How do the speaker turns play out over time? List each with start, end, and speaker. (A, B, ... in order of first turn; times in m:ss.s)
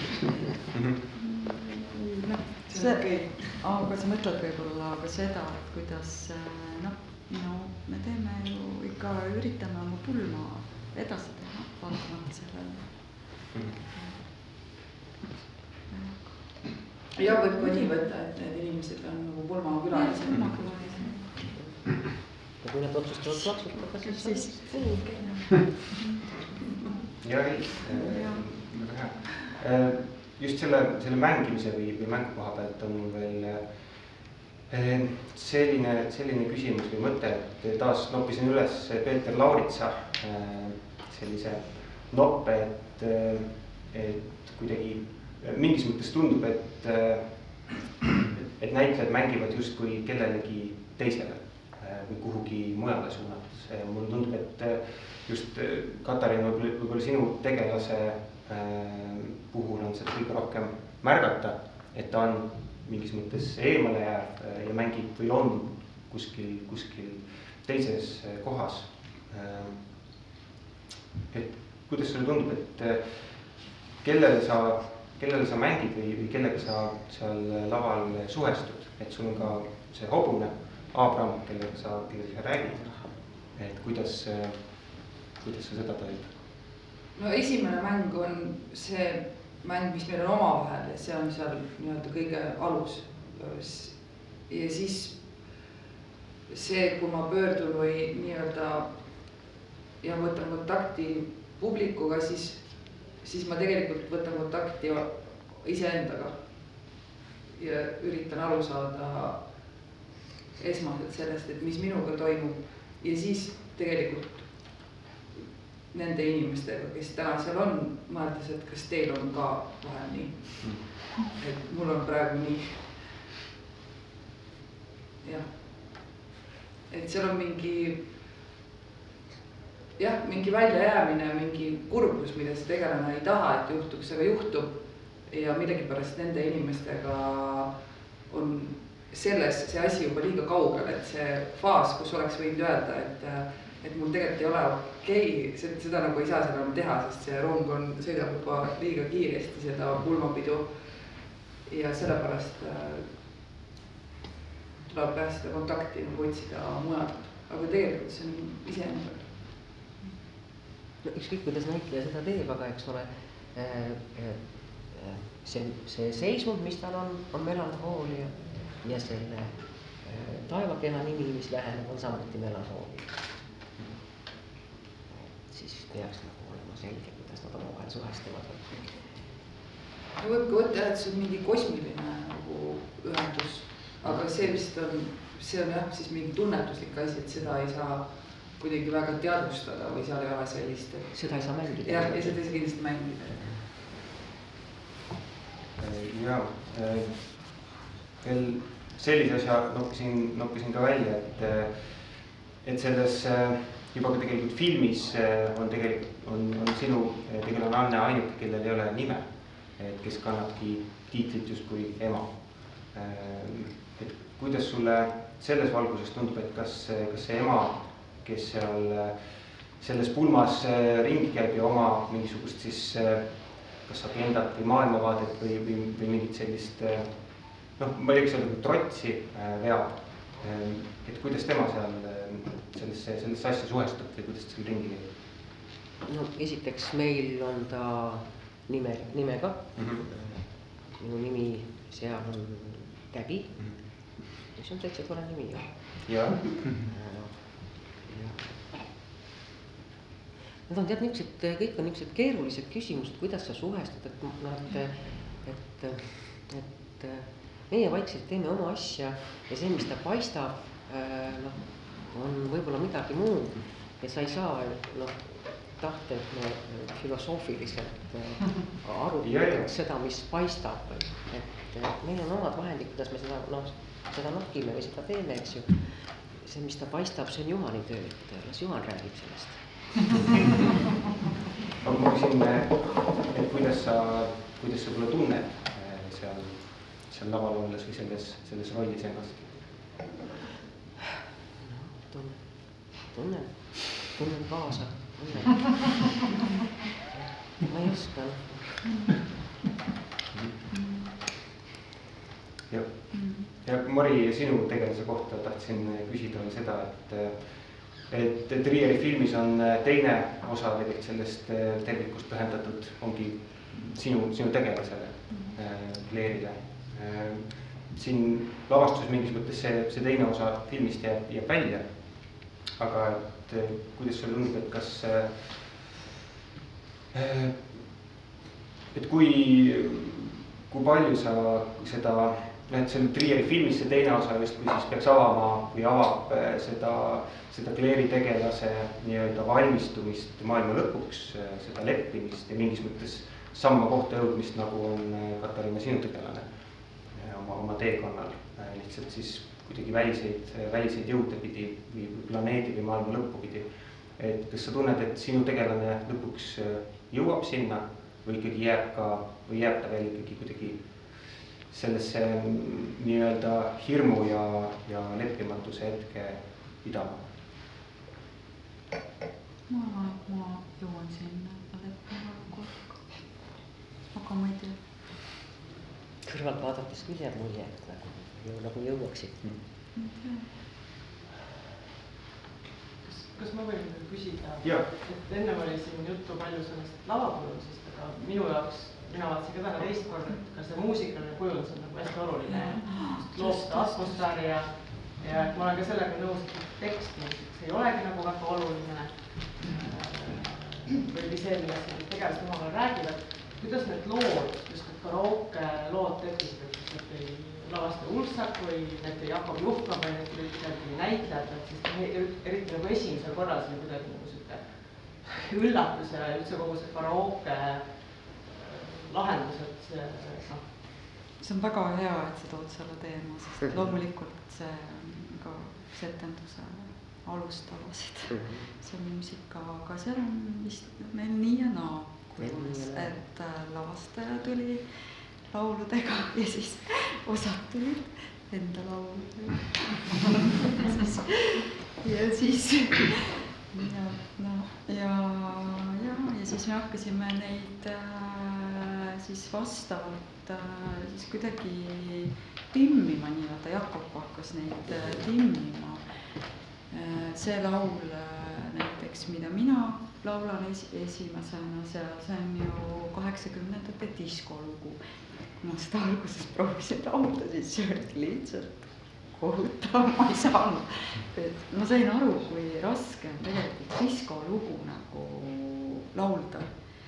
0:01.2-0:14.2 A
0:02.7-0:03.4 B
0:15.9-0:18.0 A
0:17.2-0:20.7 B
0:19.9-0:21.5 A
0:21.6-0:24.9 C
0:23.3-0:28.5 A
0:27.2-1:10.3 D
1:11.3-1:26.5 D
1:27.2-1:35.6 B
1:36.5-1:39.4 B
1:40.0-1:46.9 B
1:47.5-1:49.9 B
1:50.6-1:55.0 B
1:55.9-2:03.2 B
2:05.2-2:06.2 B
2:06.9-2:08.3 B
2:10.0-2:33.2 B
2:34.9-2:39.5 B
2:41.0-2:53.2 C
2:55.1-2:59.2 C
3:00.2-3:13.6 B
3:04.0-3:04.6 C
3:11.1-3:12.7 C
3:13.3-3:13.6 C
3:15.8-3:55.2 D
3:56.1-4:06.1 C
3:59.8-4:00.1 D
4:06.0-4:06.7 D
4:06.9-4:08.9 C
4:10.7-4:40.1 C
4:29.2-4:29.7 D
4:41.8-4:50.0 D
4:51.6-4:56.2 C
4:57.1-4:58.6 C
5:00.7-5:01.1 A
5:02.7-5:25.9 D
5:03.1-5:03.5 A
5:27.1-5:28.2 D
5:28.9-6:07.3 D
6:09.7-6:13.4 A
6:14.1-6:14.8 A
6:16.2-6:19.5 C
6:20.0-6:20.5 A
6:23.0-7:00.8 E
6:24.6-6:24.9 D
6:32.5-6:34.5 A
7:01.4-7:56.9 A
7:08.3-7:08.7 C
7:12.4-7:13.2 C